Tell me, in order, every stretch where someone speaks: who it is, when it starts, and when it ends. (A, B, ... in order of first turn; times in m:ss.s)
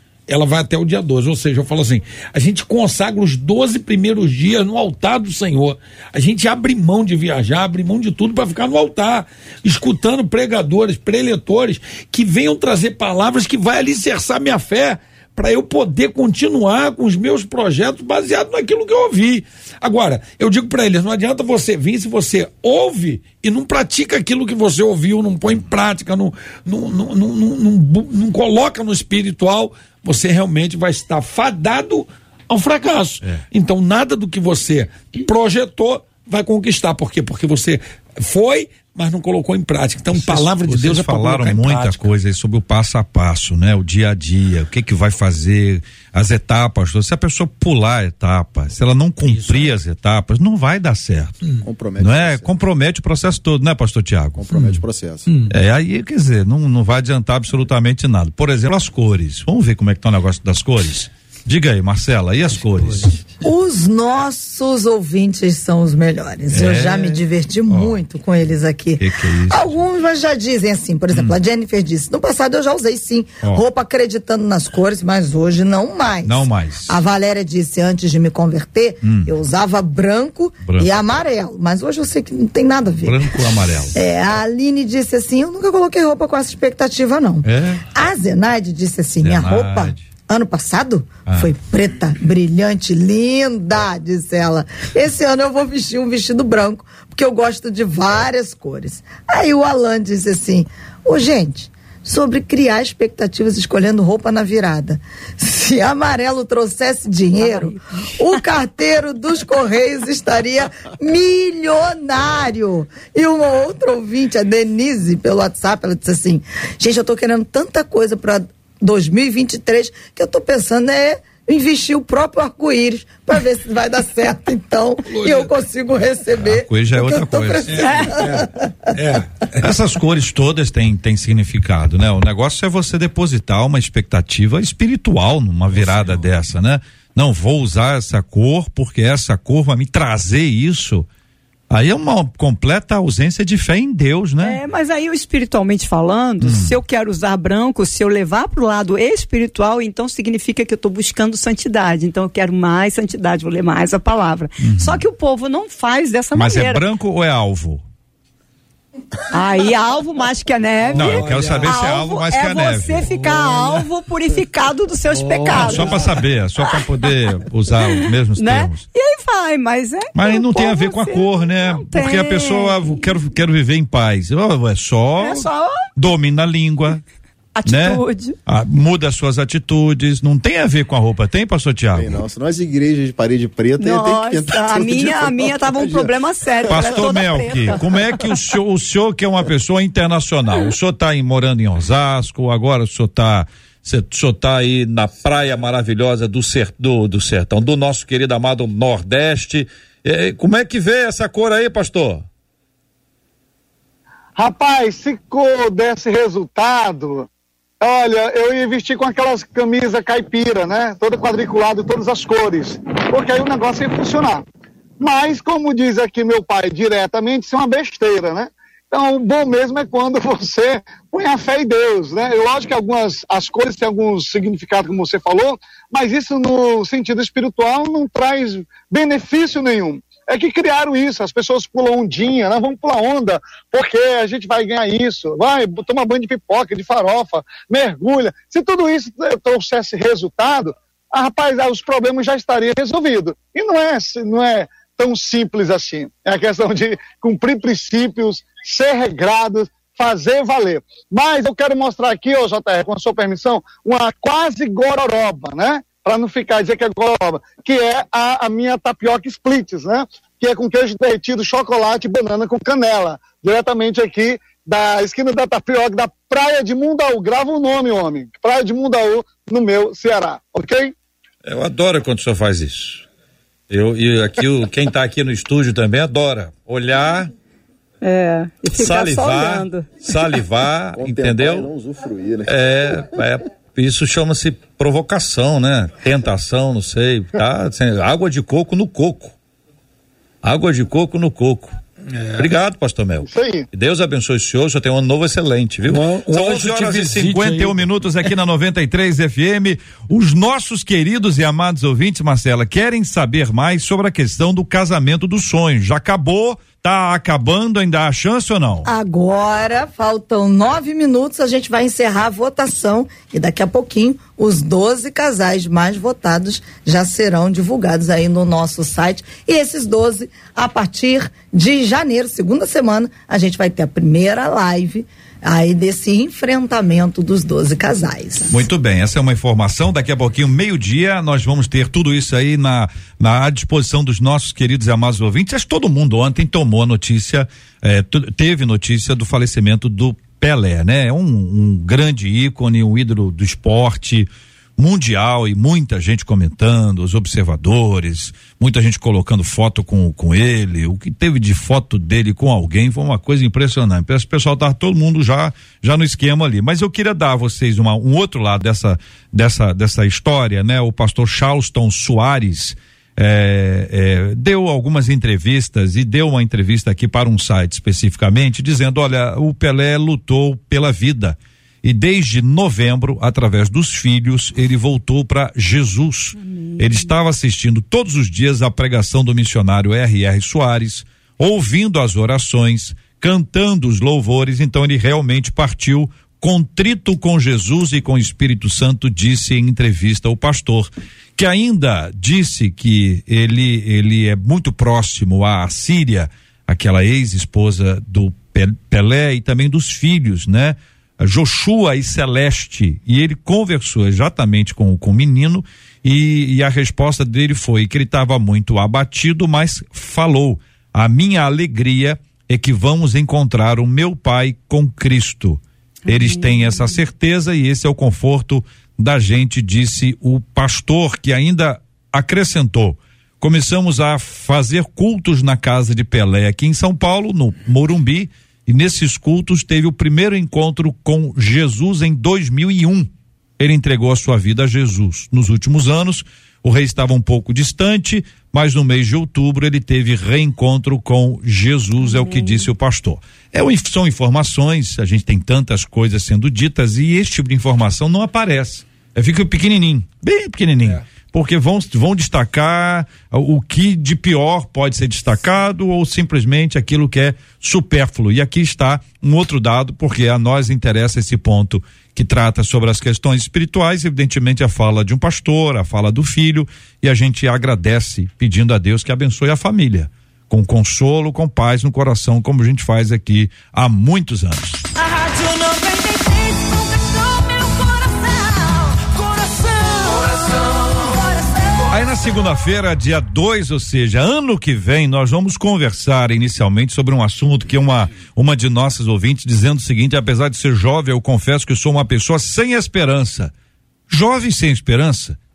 0:00.3-0:42.1 A
0:40.1-0:51.4 B
0:49.3-0:49.7 A
0:51.6-0:52.5 C
0:52.0-0:54.6 B
0:54.4-0:55.3 C
0:54.5-0:55.5 A
0:55.5-1:03.2 B
1:03.4-2:08.9 D
1:06.5-1:08.0 B
1:09.0-1:09.8 B
1:11.1-1:11.4 B
1:16.2-1:17.0 B
1:19.0-1:19.3 B
1:20.6-1:21.1 B
1:23.0-1:24.0 B
1:27.4-1:27.8 B
1:29.2-1:30.0 B
1:47.4-1:48.1 E
2:05.1-2:05.5 A
2:06.3-2:08.1 B
2:07.7-2:09.7 A
2:09.6-2:21.1 B
2:15.7-2:16.3 A
2:21.7-2:24.6 B
2:24.4-2:36.8 E
2:26.4-2:26.8 B
2:34.6-2:35.0 B
2:36.3-2:37.8 B
2:39.3-2:46.8 E
2:40.9-2:41.8 A
2:40.9-2:43.2 B
2:45.4-2:45.9 A
2:45.5-2:48.8 B
2:47.9-2:53.0 E
2:50.1-2:57.0 B
2:55.2-2:55.8 E
2:57.5-2:58.4 E
2:57.6-3:02.2 B
3:01.9-3:06.1 C
3:03.8-3:07.8 E
3:06.7-3:22.2 B
3:24.4-3:27.3 F
3:27.8-3:34.4 F
3:35.0-4:30.9 F
4:31.4-4:33.0 B
4:33.7-4:37.3 B
4:38.0-4:40.0 E
4:38.7-4:41.7 B
4:40.9-4:43.1 C
4:42.4-4:49.3 B
4:50.4-4:51.7 B
4:52.1-4:52.5 A
4:52.4-5:08.9 B
4:53.3-4:53.7 F
4:55.8-4:57.8 A
5:08.8-5:28.7 D
5:28.5-7:54.8 B
6:56.1-6:56.9 E
7:55.0-8:01.9 D
8:01.9-8:13.5 B
8:14.1-8:15.4 B